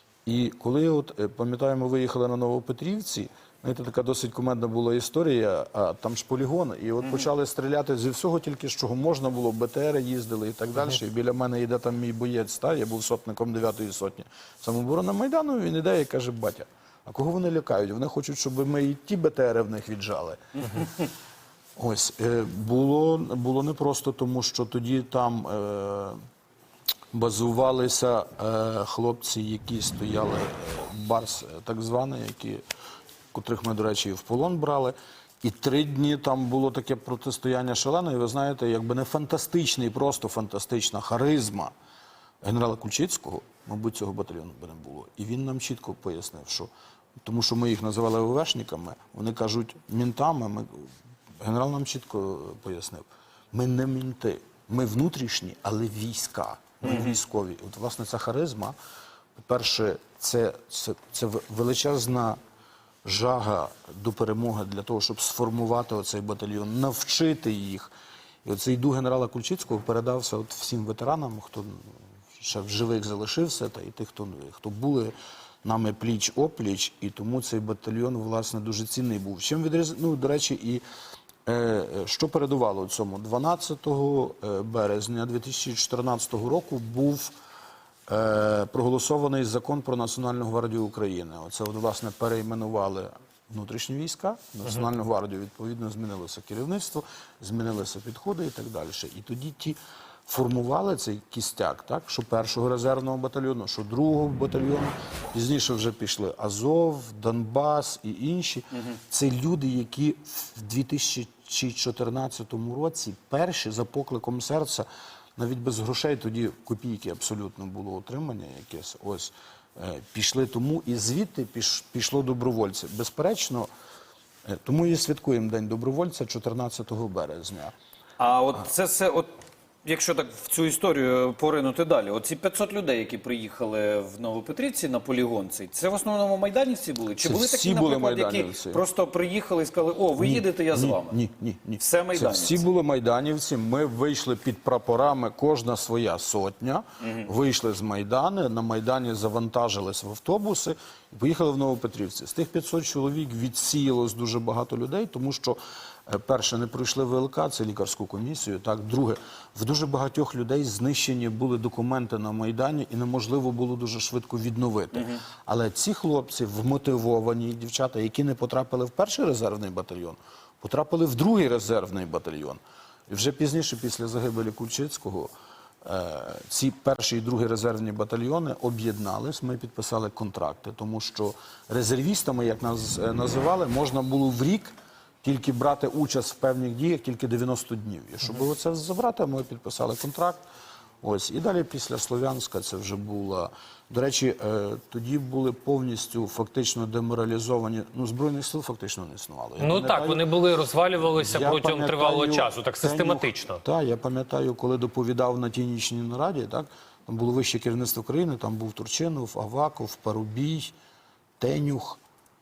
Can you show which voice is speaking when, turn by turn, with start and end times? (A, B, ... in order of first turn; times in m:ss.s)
0:00.2-0:20.9 A
0:21.8-0:26.2 A
0:27.1-0:32.6 A
0:33.3-0:41.7 A
0:42.4-0:46.7 A
0:47.2-0:58.7 A
0:56.8-0:57.1 B
0:59.4-1:02.4 A
1:03.0-1:07.9 A
1:08.4-1:20.8 A
1:21.4-1:27.3 A
1:28.1-2:03.7 A
2:04.4-2:07.7 A
2:08.2-2:09.3 B
2:09.8-2:21.2 B
2:17.2-2:18.8 A
2:20.2-2:55.3 A
2:21.8-2:22.6 B
2:27.0-2:27.3 B
2:55.8-3:10.4 A
3:11.0-3:20.3 A
3:19.6-3:23.6 C
3:21.1-3:30.7 A
3:31.4-3:32.0 A